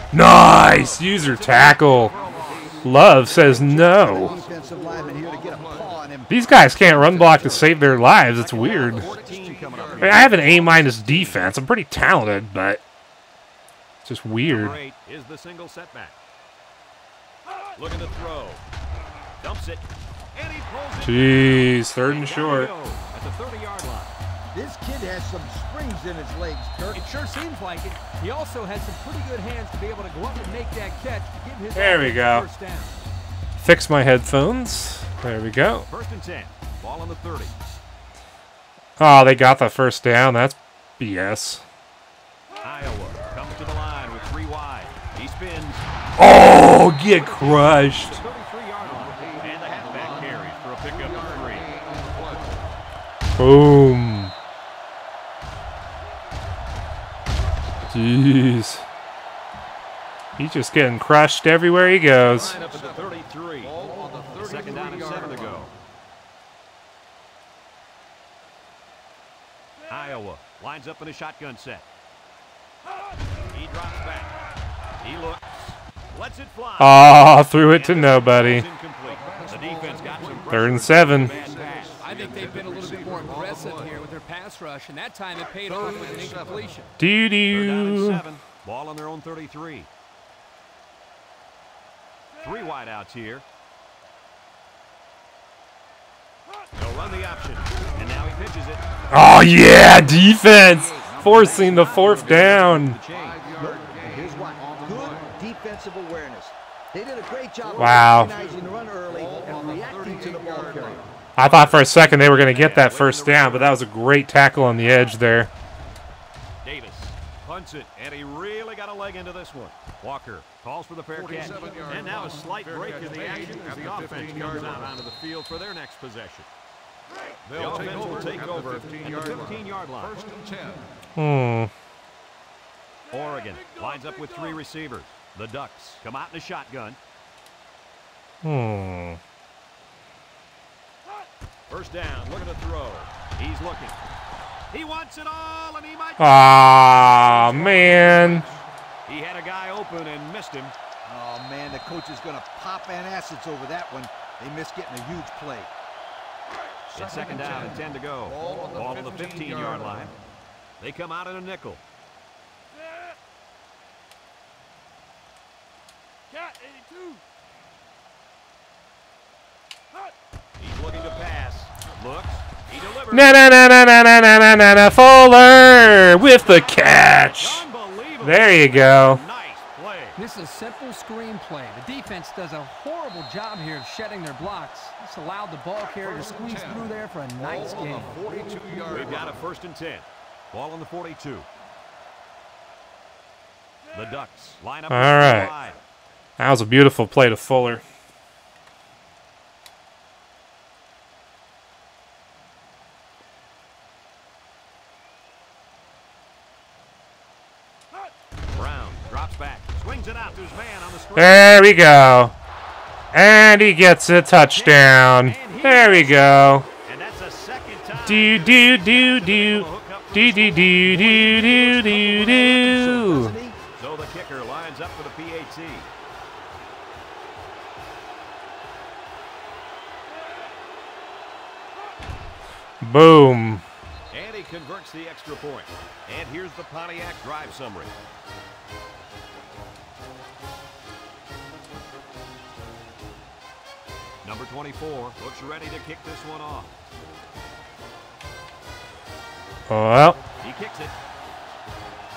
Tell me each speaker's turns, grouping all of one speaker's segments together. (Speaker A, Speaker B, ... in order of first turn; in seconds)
Speaker A: 0.1-2.1, 2.8-4.3, 6.3-9.1, 10.0-12.8, 14.0-14.8, 21.0-22.7, 31.7-32.5, 33.6-35.9, 39.0-41.6, 46.2-48.2, 53.4-54.3, 57.9-58.8, 60.4-62.5, 76.8-78.7, 80.5-81.3, 87.0-88.2, 99.1-103.0, 107.8-108.3, 111.4-115.5, 131.2-131.7, 138.4-139.2, 146.2-148.4, 173.1-177.7, 178.2-179.2, 194.9-195.5, 196.4-197.8, 211.2-212.3, 213.1-216.7, 218.1-223.3, 232.8-233.6, 249.7-250.2
Speaker B: 0.4-2.8, 6.9-11.5, 14.4-16.1, 17.8-18.6, 19.4-24.1, 35.9-37.5, 42.6-45.8, 47.0-51.7, 62.2-63.8, 64.3-65.7, 69.9-71.8, 73.5-74.3, 75.0-82.0, 87.5-89.9, 92.4-93.4, 96.7-98.8, 101.0-103.5, 111.4-113.8, 116.6-126.5, 127.5-130.2, 133.1-137.0, 141.7-144.0, 144.7-148.5, 149.1-150.7, 156.9-160.1, 160.8-161.8, 170.6-173.4, 176.3-180.2, 188.9-191.5, 193.9-195.8, 208.5-211.4, 214.5-222.2, 223.8-225.9, 234.1-237.9, 244.2-246.7, 250.4-250.9
Speaker C: 1.9-6.0, 8.5-10.5, 48.8-52.6, 62.4-65.7, 79.0-84.1, 85.7-86.7, 101.2-105.4, 107.7-111.0, 121.1-124.9, 127.4-130.9, 147.7-148.4, 156.9-160.1, 186.0-189.4
Speaker D: 3.4-6.3, 6.9-7.3, 24.5-27.1, 103.6-111.0, 151.1-155.7, 221.4-223.6
Speaker E: 26.9-33.0, 82.0-86.9, 180.2-188.1